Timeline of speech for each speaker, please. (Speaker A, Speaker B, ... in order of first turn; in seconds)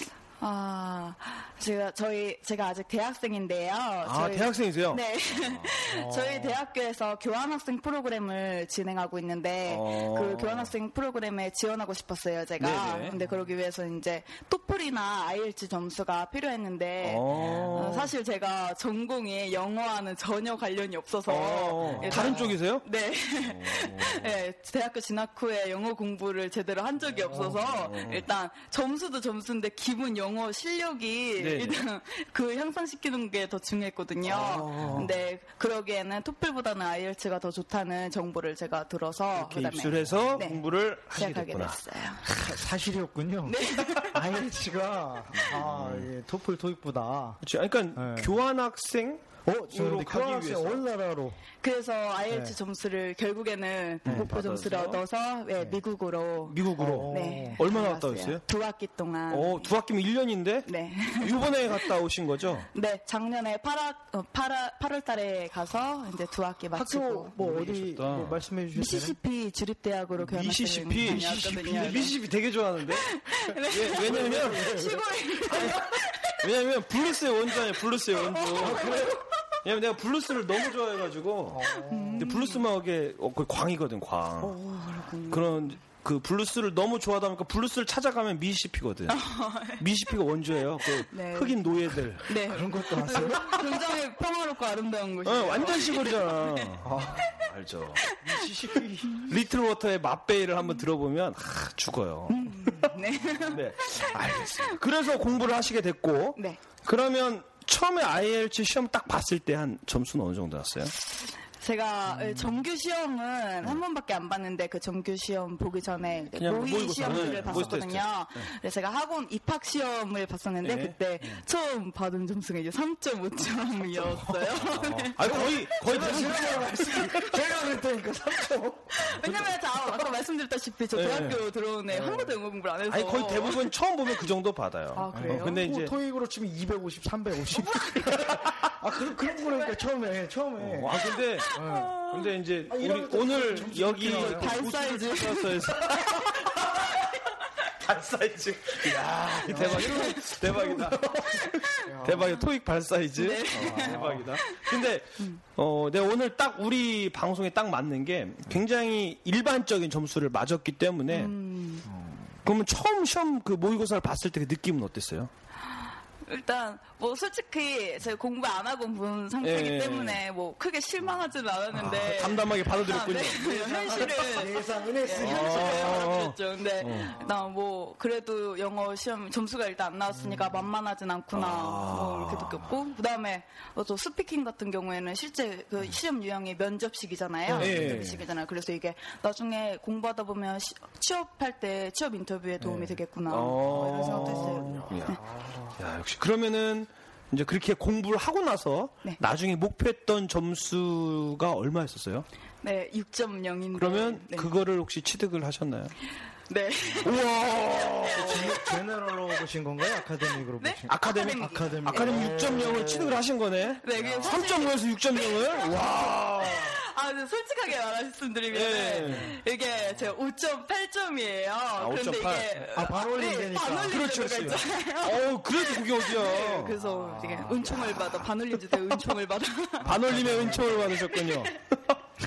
Speaker A: 0.4-42.3, 43.5-44.2, 51.6-59.7, 60.7-61.9, 62.7-67.3, 68.8-72.2, 73.0-76.4, 78.2-79.1, 81.9-82.6, 84.4-85.8, 89.1-89.8, 90.9-96.7, 102.3-104.8, 106.4-106.6, 111.1-125.4, 128.9-133.7, 134.9-135.6, 137.7-138.2, 141.4-142.3, 144.0-145.6, 149.5-150.7, 151.4-151.8, 153.2-155.4, 161.1-161.9, 166.2-195.2, 202.6-204.5, 206.5-207.2, 210.6-212.2, 213.8-230.0, 231.1-231.5
Speaker B: 4.0-5.8, 9.7-10.7, 12.6-13.1, 17.0-18.1, 21.3-22.8, 23.4-24.4, 27.6-28.3, 31.4-31.8, 34.2-35.1, 39.3-41.8, 45.4-46.1, 47.4-50.8, 54.0-55.0, 56.5-58.4, 59.3-62.7, 67.4-68.4, 70.2-73.2, 73.7-74.7, 75.5-75.8, 76.4-79.0, 79.6-84.6, 85.3-92.4, 95.2-98.2, 99.2-102.9, 103.5-111.0, 116.3-118.5, 120.6-121.4, 124.3-127.4, 130.9-131.4, 132.9-135.9, 138.1-138.7, 140.6-141.5, 142.1-147.0, 147.8-161.3, 162.4-165.3, 169.4-170.2, 171.8-174.4, 175.1-177.2, 181.3-182.7, 187.6-188.2, 193.3-195.2, 195.8-202.3, 203.8-205.9, 207.0-208.6, 210.9-216.8, 218.5-219.4, 221.8-222.6, 223.9-226.8, 227.8-228.2, 229.8-232.0
Speaker C: 5.9-6.6, 13.1-13.5, 17.3-17.7, 21.8-22.6, 27.3-27.6, 34.7-35.1, 42.2-47.4, 48.0-48.4, 49.5-51.4, 52.3-52.6, 56.8-57.6, 66.7-69.2, 71.0-72.1, 73.9-75.7, 78.5-79.3, 81.5-82.3, 92.3-93.9, 96.8-97.3, 98.2-99.2, 112.1-112.6, 117.1-117.8, 124.8-129.8, 131.9-132.4, 135.1-142.0, 142.7-144.7, 149.4-152.4, 153.5-154.3, 161.8-162.4, 171.7-172.2, 173.7-176.1, 180.1-180.7, 187.5-188.1, 192.6-193.0, 193.6-195.8, 208.1-213.2, 213.9-214.4, 219.0-219.4, 222.7-224.5, 226.8-228.0, 229.8-231.1